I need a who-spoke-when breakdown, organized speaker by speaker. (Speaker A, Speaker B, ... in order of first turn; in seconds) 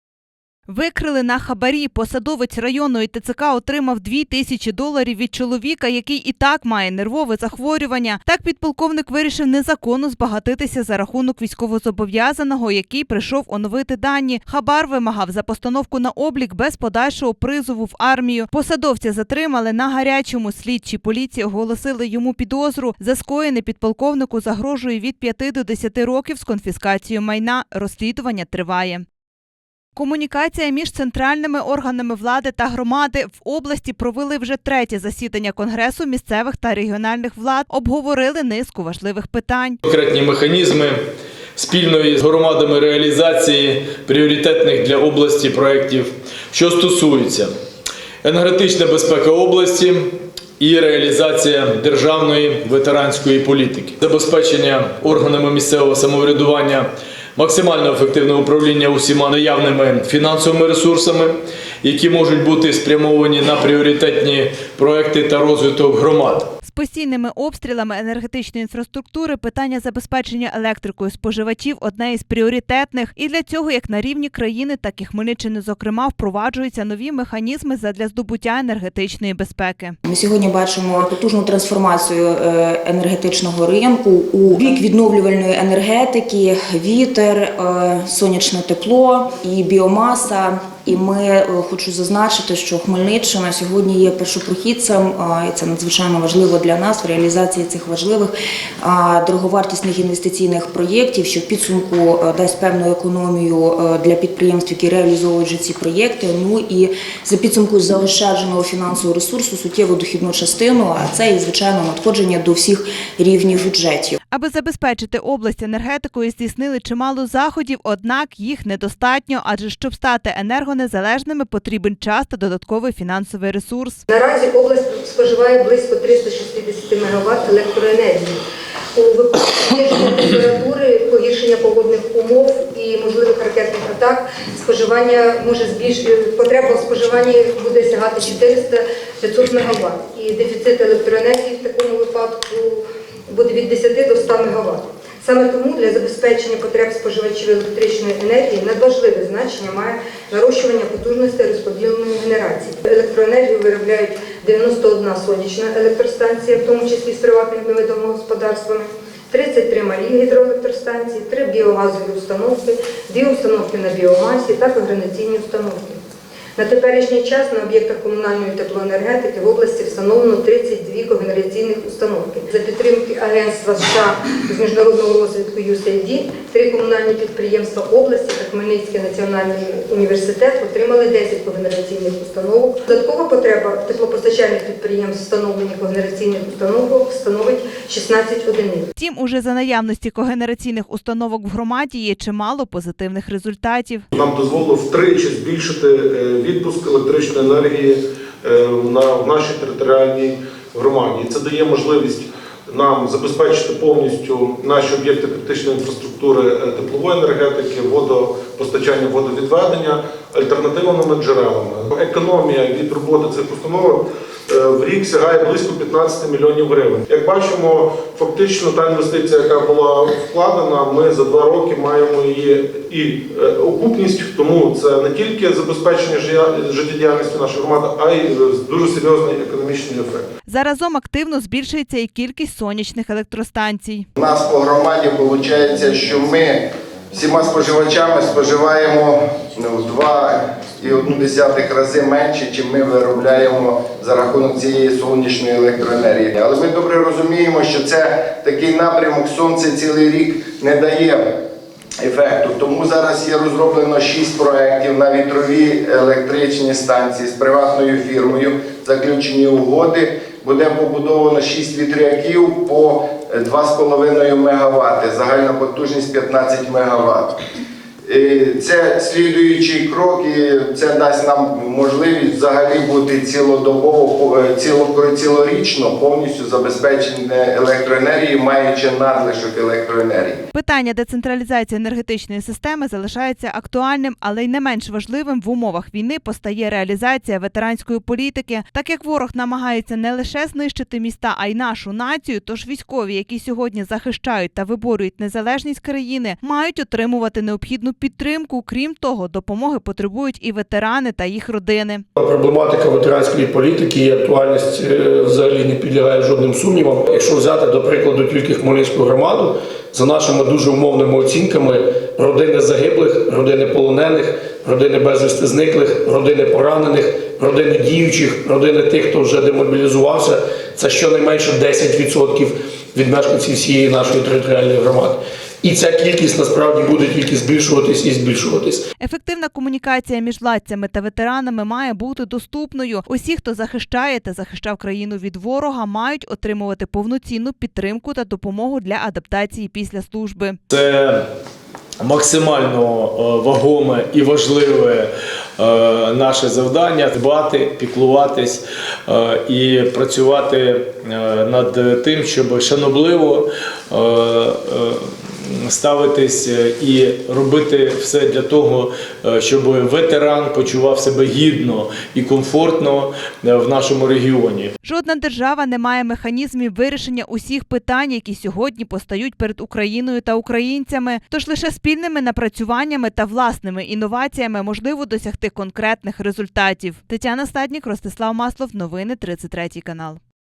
Speaker A: 0.7-29.1, 30.0-39.8, 66.6-80.0, 114.3-124.0, 188.9-194.1, 230.5-234.1, 280.5-302.1, 329.0-340.6, 364.8-380.2
Speaker B: 39.8-41.0, 41.6-47.5, 48.2-66.5, 340.7-341.2, 342.0-364.7
Speaker C: 80.0-114.2
Speaker D: 124.1-128.4, 129.0-166.0, 166.6-188.9
Speaker E: 194.1-230.3
Speaker F: 234.2-251.4, 252.0-267.4, 268.1-280.4
Speaker G: 302.2-328.9